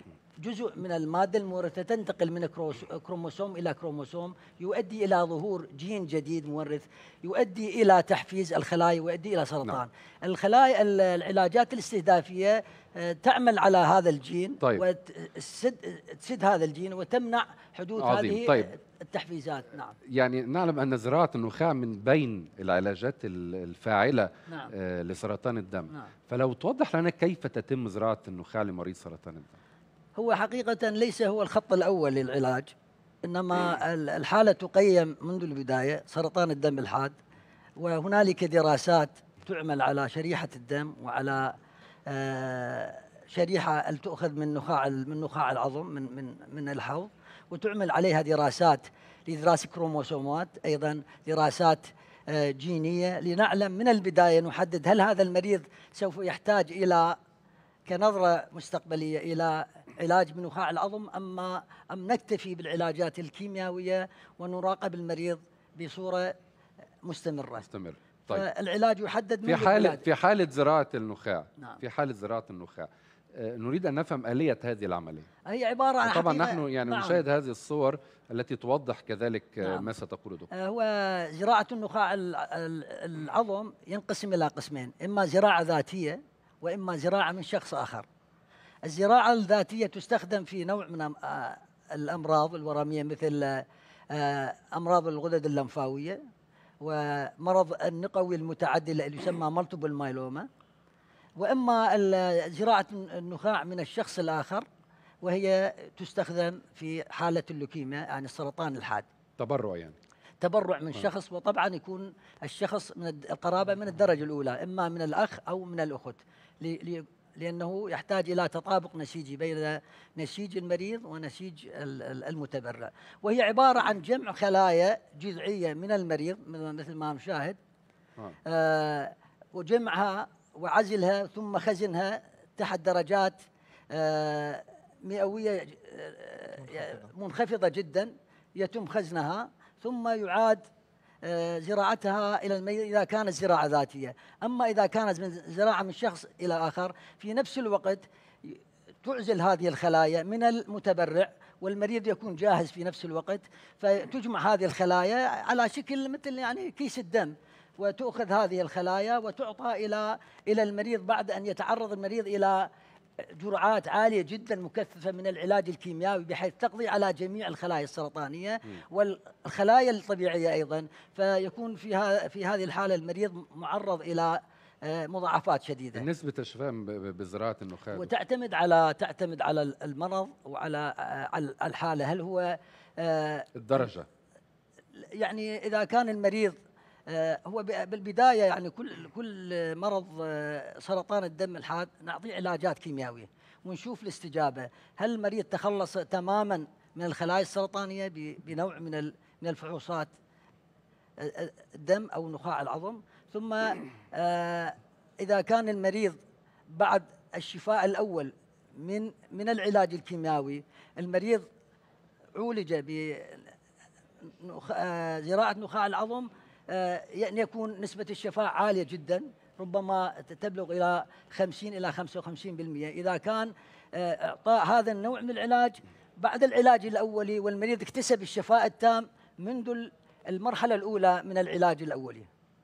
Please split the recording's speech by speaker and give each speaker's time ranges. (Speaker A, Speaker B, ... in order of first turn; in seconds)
Speaker A: 0.4-20.0, 30.2-32.7, 33.2-37.1, 37.8-41.6, 42.1-57.2, 57.9-66.3, 67.0-67.7, 68.3-70.0, 75.5-77.2, 79.6-79.9, 80.5-88.1, 88.8-96.2, 96.8-100.5, 101.4-104.7, 105.2-109.1, 110.4-127.6, 128.5-133.4, 133.9-140.6, 141.2-162.7, 163.3-176.1, 177.9-183.5, 185.0-186.6, 187.1-200.1, 201.2-206.2, 206.7-211.5, 212.4-213.5, 214.4-232.3
Speaker B: 18.0-18.7, 20.1-29.6, 67.6-68.5, 69.5-75.3, 76.0-80.5, 109.4-110.0, 175.9-178.1, 183.6-184.1